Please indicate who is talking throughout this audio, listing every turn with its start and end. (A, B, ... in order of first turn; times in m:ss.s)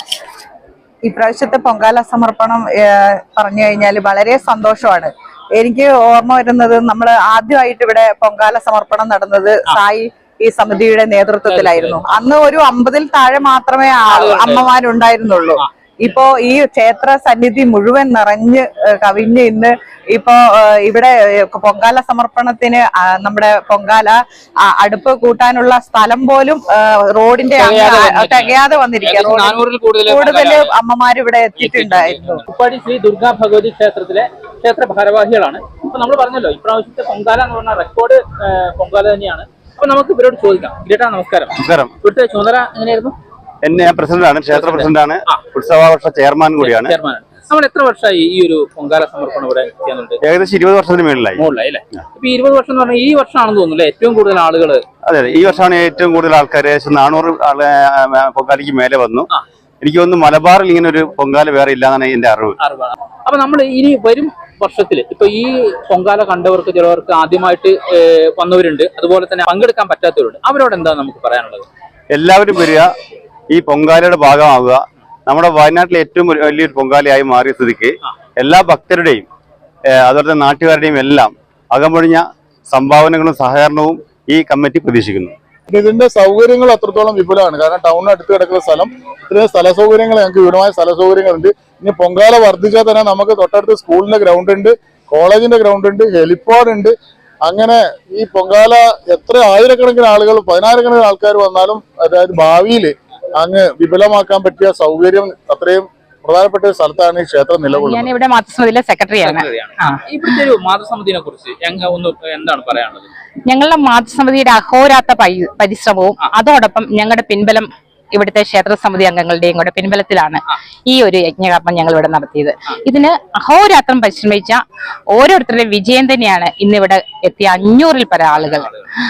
0:01.0-0:24.2 A
0:11.4-0:12.0 B
0:14.0-0:14.7 B
0:24.7-0:32.4 A
0:27.6-0:30.7 B
0:31.5-0:43.1 B
0:41.6-0:41.9 C
0:43.6-0:47.0 C
0:44.5-0:45.4 B
0:46.6-0:50.2 B
0:50.2-0:51.4 C
0:51.4-0:54.8 B
0:55.0-0:59.3 C
0:59.8-1:02.6 C
1:02.6-1:11.7 B
1:12.1-1:12.8 C
1:13.5-1:19.2 C
1:20.0-1:25.3 C
1:25.7-1:48.1 D
1:47.7-1:50.0 E
1:49.2-1:53.1 B
1:53.5-2:04.6 E
2:05.1-2:08.7 E
2:08.3-2:08.9 B